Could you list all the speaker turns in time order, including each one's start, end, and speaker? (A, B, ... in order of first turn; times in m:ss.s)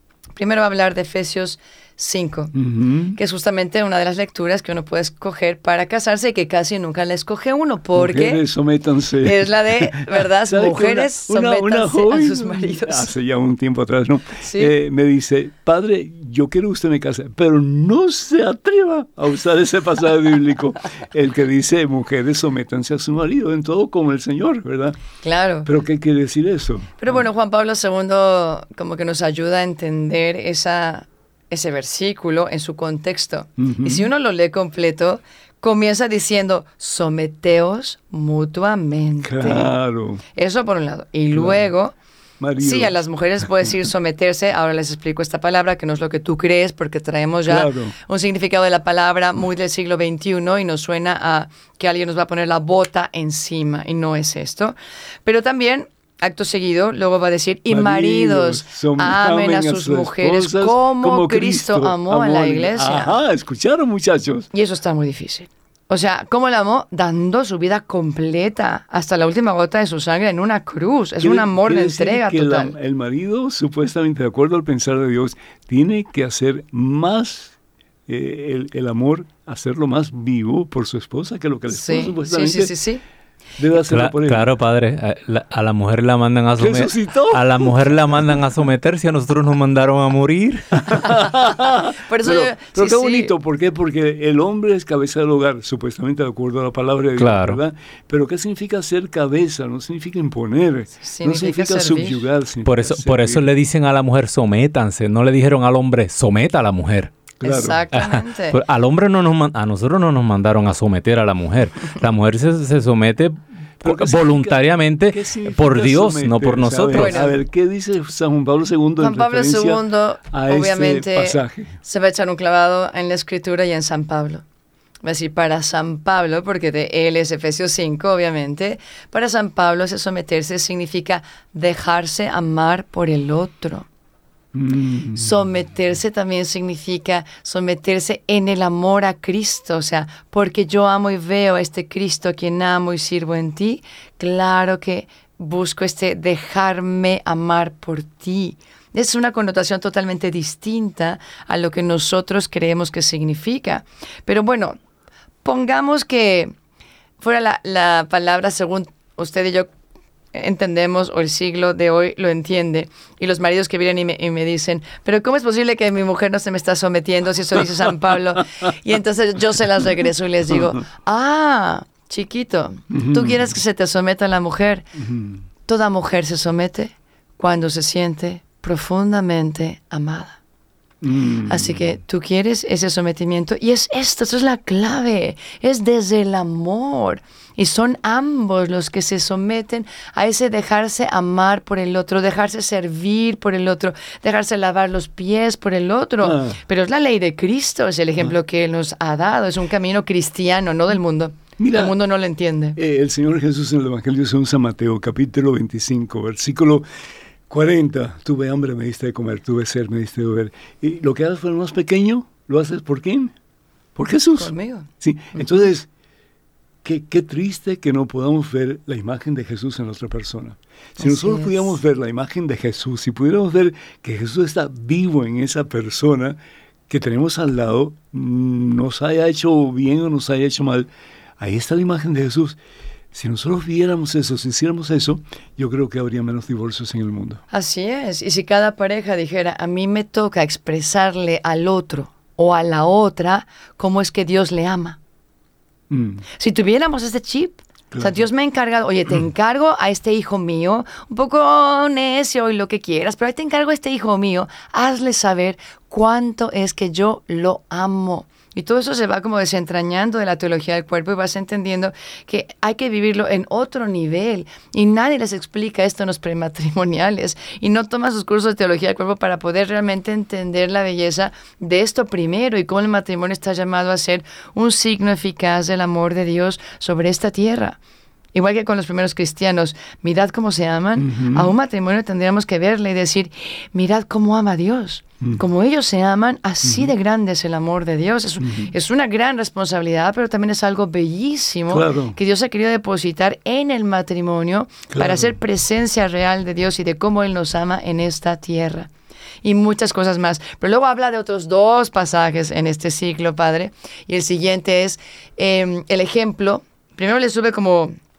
0:00.4-0:02.5 A
0:02.5-0:03.2 B
0:03.2-0:08.4 A
0:07.9-0:25.0 B
0:09.2-0:13.1 A
0:14.4-0:14.7 A
0:25.2-0:25.7 A
0:25.6-0:27.2 B
0:27.0-0:39.7 A
0:33.6-0:34.1 B
0:39.2-0:40.2 B
0:40.4-0:42.0 A
0:41.3-0:41.7 B
0:42.4-0:43.7 B
0:42.6-1:03.2 A
0:47.5-0:48.0 B
0:57.7-1:04.5 B
1:04.5-1:12.8 A
1:11.2-1:22.7 B
1:21.7-1:23.0 A
1:23.6-1:24.5 B
1:23.9-1:31.1 C
1:26.6-1:27.8 B
1:30.8-1:43.5 B
1:32.0-1:33.3 A
1:37.2-1:37.6 C
1:41.0-1:42.2 A
1:42.6-1:47.1 C
1:47.4-1:47.8 B
1:47.4-1:48.6 A
1:47.9-1:57.2 C
1:53.8-2:01.8 B
1:56.9-1:57.4 A
1:59.0-2:04.4 A
2:05.0-2:13.9 A
2:14.5-2:15.3 B
2:15.2-2:34.8 A
2:35.4-2:36.5 A
2:37.2-2:39.7 A
2:40.3-2:54.9 A
2:50.5-2:50.8 B
2:52.9-2:53.6 B
2:55.0-2:55.4 B
2:55.7-3:00.4 A
3:01.0-3:02.0 B
3:01.5-3:22.8 A
3:16.2-3:16.6 B
3:21.6-3:22.0 B
3:22.8-3:26.8 B
3:27.5-3:33.3 B
3:34.0-3:35.9 B
3:34.4-3:35.7 A
3:36.8-3:46.4 B
3:41.0-3:41.7 A
3:46.9-3:52.6 B
3:53.1-3:57.4 B
3:57.5-4:05.0 A
4:05.9-4:06.2 B
4:06.4-4:37.8 A
4:07.9-4:08.3 B
4:38.3-4:58.9 A
4:41.0-4:41.5 B
4:46.6-4:46.9 B
4:48.4-4:48.7 B
4:51.7-4:52.2 B
4:54.9-4:55.4 B
4:59.4-5:08.0 A